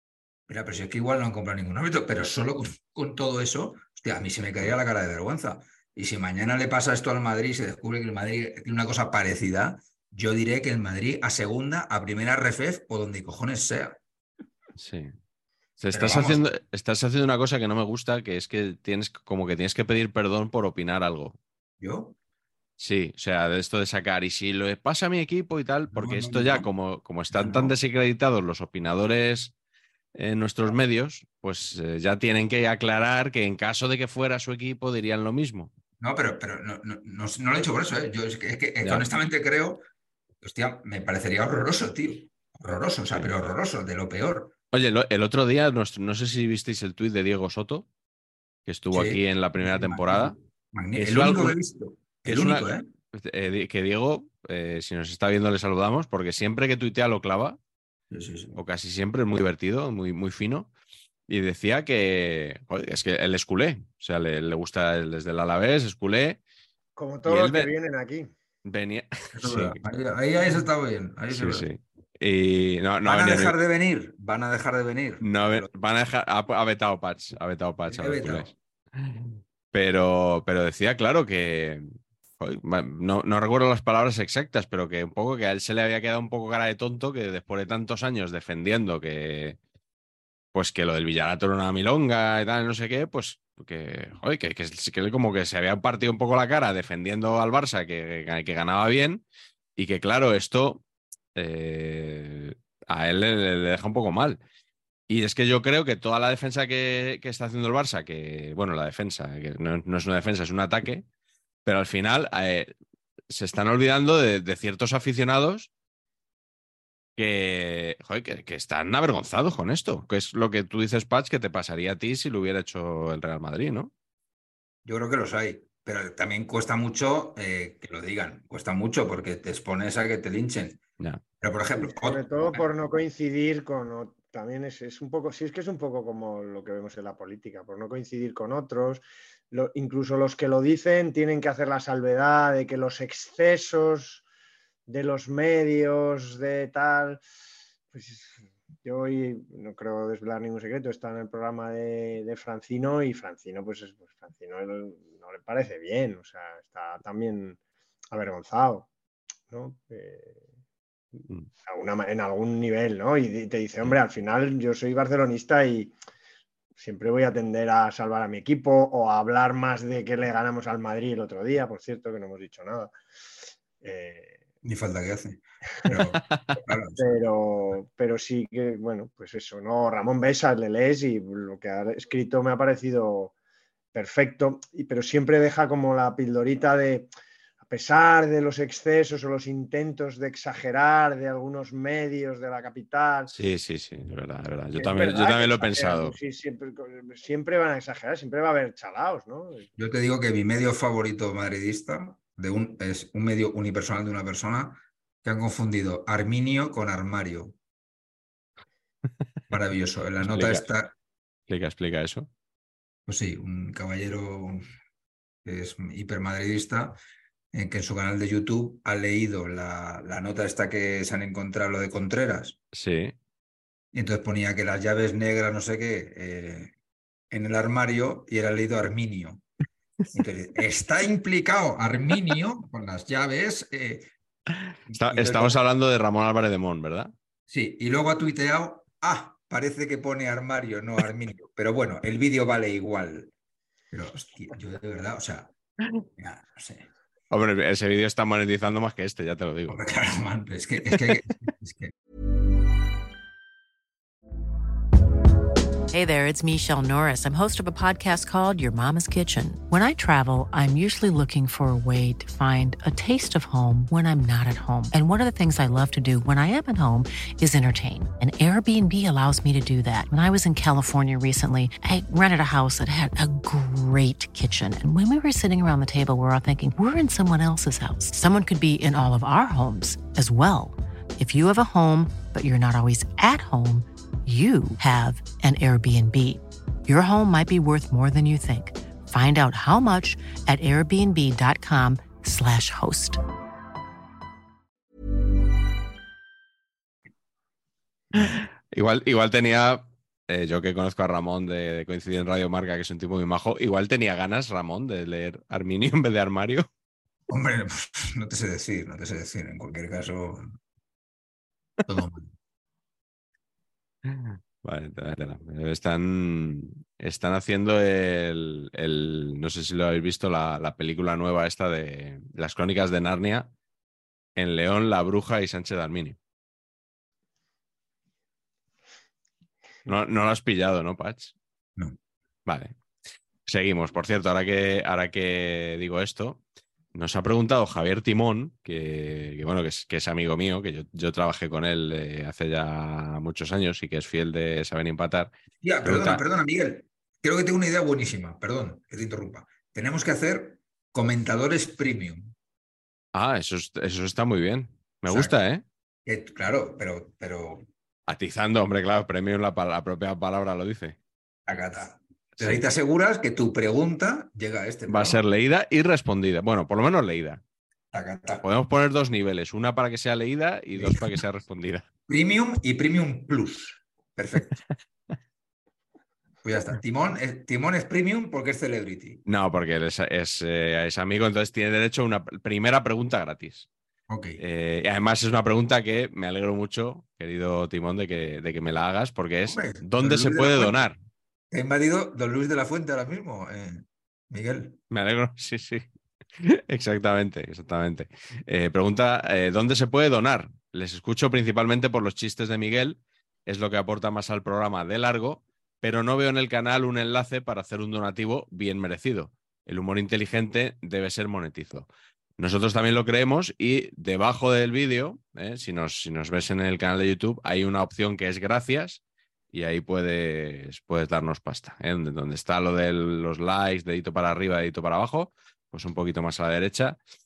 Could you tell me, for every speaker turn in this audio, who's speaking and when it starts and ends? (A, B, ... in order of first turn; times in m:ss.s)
0:00.5-0:14.0 A
0:14.8-0:15.1 B
0:15.8-0:21.4 B
0:15.9-0:16.4 A
0:21.8-0:22.2 A
0:22.8-0:29.5 B
0:25.9-0:26.7 A
0:27.3-0:27.8 A
0:30.2-0:35.7 B
0:36.0-0:39.8 A
0:40.4-0:44.6 A
0:44.7-0:47.9 B
0:48.7-0:50.4 B
0:48.9-0:52.9 A
0:51.0-0:51.6 B
0:52.2-0:57.6 B
0:58.1-0:58.6 A
0:58.6-1:00.7 B
1:01.3-1:06.4 B
1:07.0-1:08.3 C
1:07.3-1:07.7 B
1:08.6-1:09.8 B
1:09.3-1:11.7 A
1:11.3-1:13.5 B
1:13.0-1:15.7 A
1:15.2-1:21.9 B
1:17.9-1:18.5 A
1:22.4-1:29.6 B
1:30.5-1:39.2 B
1:39.8-1:40.8 B
1:41.4-1:44.4 B
1:45.1-1:51.0 B
1:51.7-1:52.7 B
1:53.3-1:55.7 B
1:57.2-2:03.9 B
2:04.8-2:10.8 A
2:11.4-2:12.6 A
2:11.8-2:24.2 C
2:24.9-2:27.2 C
2:27.9-2:37.6 C
2:38.1-2:38.9 C
2:39.5-2:40.4 C
2:41.2-2:45.9 C
2:46.8-2:52.9 C
2:53.8-2:54.4 C
2:54.6-2:57.2 A
2:57.0-3:03.3 C
3:03.9-3:07.1 C
3:07.6-3:13.3 C
3:13.3-3:16.1 B
3:14.8-3:19.7 C
3:19.8-3:27.6 A
3:29.5-3:30.9 A
3:30.2-3:30.6 B
3:31.5-3:32.3 B
3:33.1-3:34.7 A
3:35.4-3:37.0 A
3:37.5-3:42.6 A
3:42.7-3:43.2 B
3:43.9-3:46.7 A
3:47.3-3:49.4 A
3:50.1-3:54.1 A
3:54.9-3:55.6 A
3:55.0-3:57.1 B
3:57.5-4:03.3 A
4:03.9-4:05.5 A
4:06.2-4:06.9 A
4:07.3-4:09.8 B
4:09.7-4:11.9 A
4:15.9-4:53.2 D
4:58.1-5:06.7 B
5:07.3-5:10.6 A
5:11.9-5:12.3 A
5:14.0-5:23.5 B
5:24.4-5:26.2 B
5:29.9-5:31.4 B
5:32.5-5:32.8 B
5:33.5-5:36.4 B
5:37.0-5:45.3 B
5:45.6-5:52.3 A
5:45.8-5:46.2 B
5:53.1-5:55.6 B
5:55.1-5:55.3 A
5:56.0-5:57.7 A
5:58.1-6:01.0 B
6:01.5-6:05.2 A
6:04.9-6:07.4 B
6:07.9-6:08.4 A
6:08.4-6:11.9 B
6:10.8-6:11.0 A
6:12.1-6:14.6 A
6:16.4-6:19.2 A
6:19.3-6:23.7 B
6:24.1-6:24.4 A
6:24.4-6:31.0 B
6:29.4-6:30.9 A
6:31.5-6:34.8 A
6:34.9-6:35.8 B
6:36.4-6:59.0 B
6:59.5-7:07.0 B